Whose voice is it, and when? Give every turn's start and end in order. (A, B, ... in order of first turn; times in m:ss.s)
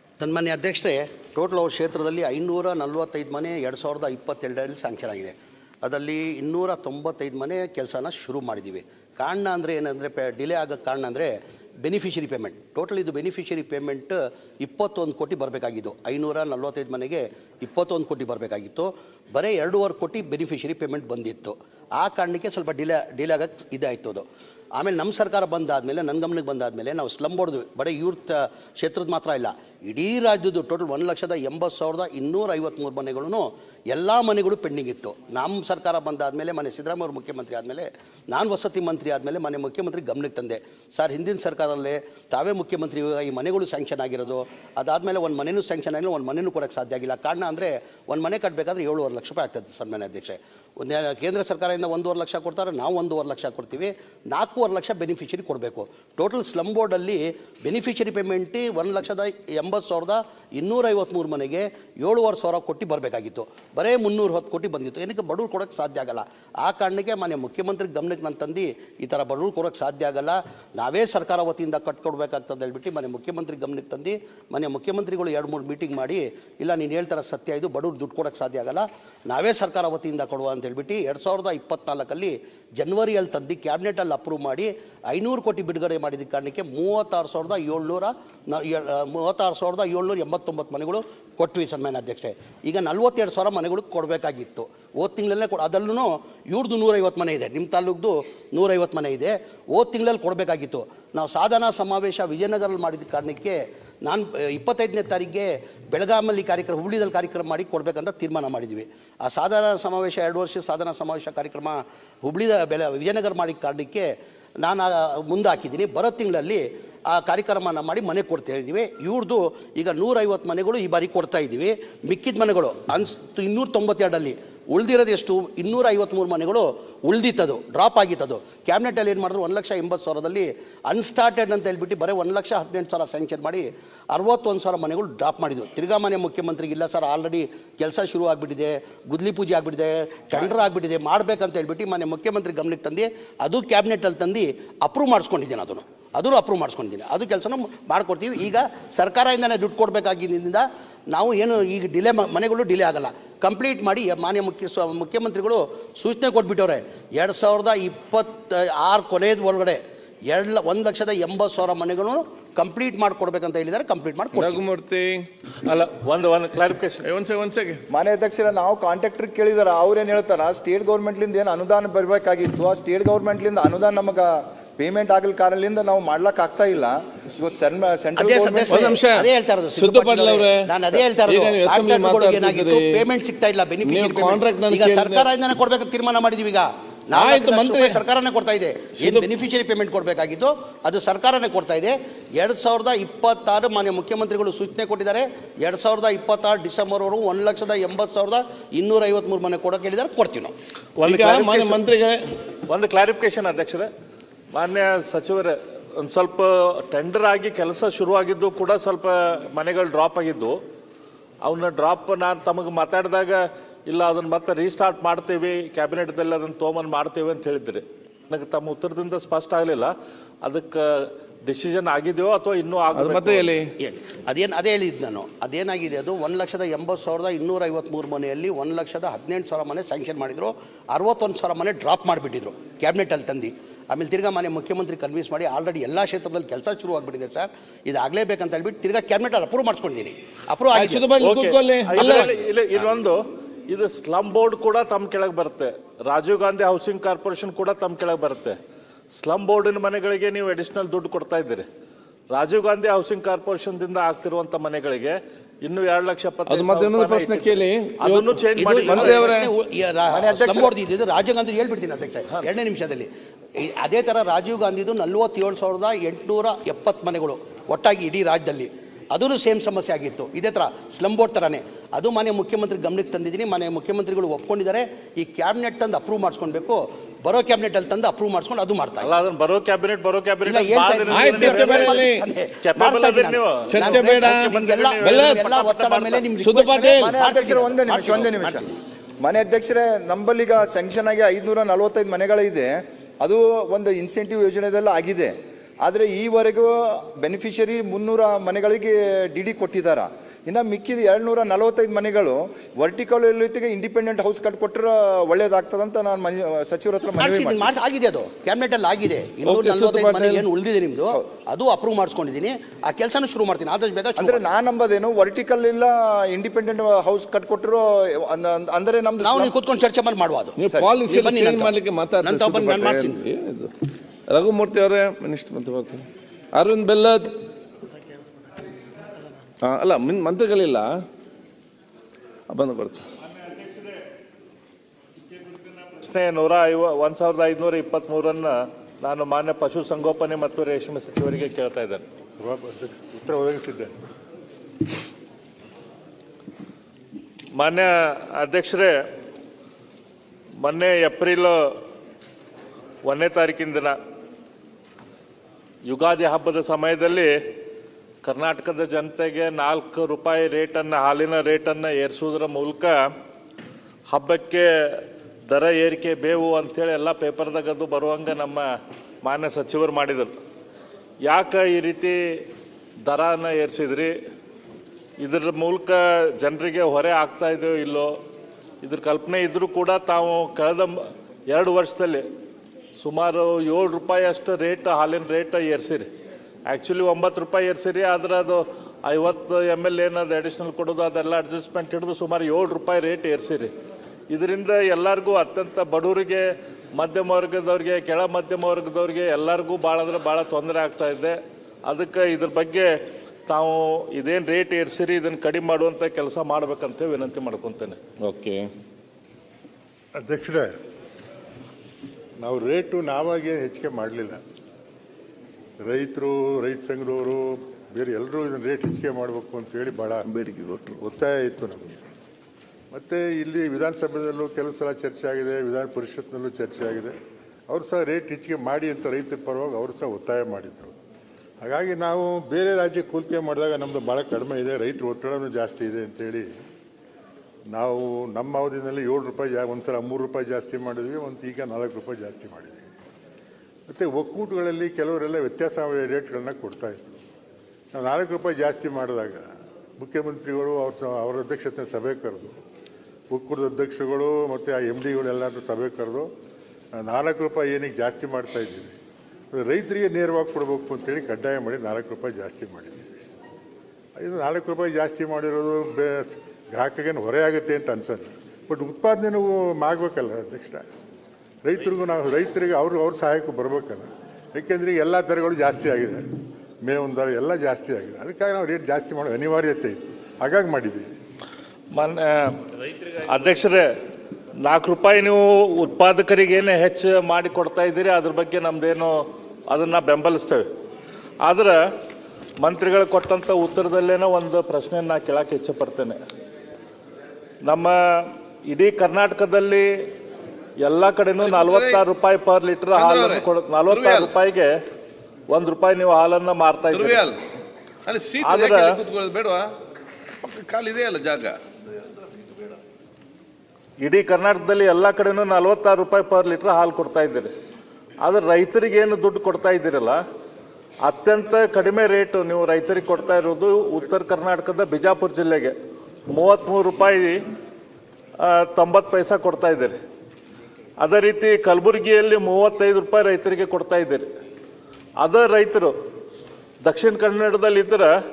0:00.2-2:44.6 A
2:44.4-2:45.3 B
2:45.6-2:47.1 C
2:47.0-2:47.8 B
2:47.9-2:58.8 D
2:58.2-3:20.6 A
2:58.7-3:03.0 B
3:03.8-3:05.3 B
3:07.1-3:08.0 B
3:09.0-3:09.3 B
3:21.0-3:21.8 C
3:21.0-3:22.2 B
3:22.7-3:23.9 C
3:24.5-3:30.6 C
3:31.4-3:43.5 C
3:42.9-3:43.7 B
3:43.8-4:01.1 A
4:00.7-4:02.3 B
4:01.2-4:08.6 C
4:09.2-4:11.7 C
4:12.3-4:19.3 C
4:16.5-4:19.5 B
4:18.6-4:39.1 A
4:20.1-4:20.7 D
4:39.0-4:42.1 C
4:40.4-4:48.7 A
4:41.1-4:42.3 B
4:42.6-4:46.3 C
4:43.7-4:45.4 B
4:46.4-4:47.2 B
4:47.0-5:07.7 D
5:07.2-5:14.4 A
5:09.4-5:10.5 B
5:14.2-5:19.5 D
5:19.2-5:23.2 A
5:20.6-5:23.7 B
5:24.3-5:27.4 B
5:29.6-5:31.0 B
5:32.5-5:33.0 B
5:33.3-5:34.0 C
5:35.3-5:42.0 C
5:42.4-5:44.0 E
5:47.6-5:49.1 C
5:50.6-5:51.8 C
5:53.0-5:54.0 C
5:55.9-5:57.4 C
5:58.2-6:03.0 C
6:04.1-6:10.3 C
6:11.2-6:12.4 C
6:13.0-6:14.2 C
6:15.2-6:18.2 C
6:18.8-6:22.3 C
6:23.0-6:26.1 C
6:26.7-6:33.7 C
6:34.3-6:43.0 C
6:43.5-6:48.0 C
6:48.2-6:48.7 B
6:50.2-6:50.7 E
6:52.4-6:54.4 E
6:55.8-7:00.2 E
7:00.3-7:01.0 B
7:01.0-7:02.1 E
7:02.9-7:07.2 E
7:07.7-7:11.0 E
7:11.6-7:16.5 E
7:17.7-7:22.9 E
7:23.9-7:27.1 E
7:27.9-7:32.6 E
7:33.3-7:36.3 E
7:37.0-7:38.9 E
7:39.5-7:43.2 E
7:44.2-7:50.9 E
7:51.6-7:56.3 E
7:56.8-8:01.1 E
8:01.9-8:03.9 C
8:04.6-8:10.7 C
8:11.4-8:11.8 C
8:12.6-8:16.2 C
8:17.6-8:19.9 C
8:20.8-8:24.7 C
8:21.4-8:22.0 B
8:22.9-8:24.3 B
8:25.5-8:27.2 C
8:26.9-8:27.4 B
8:28.1-8:29.7 B
8:28.4-8:29.0 C
8:30.4-8:31.6 B
8:34.0-8:37.5 C
8:38.2-8:40.2 C
8:41.0-8:45.8 C
8:46.3-8:47.4 C
8:48.4-8:50.0 C
8:51.0-8:54.3 C
8:55.2-8:55.9 C
8:56.8-8:58.1 C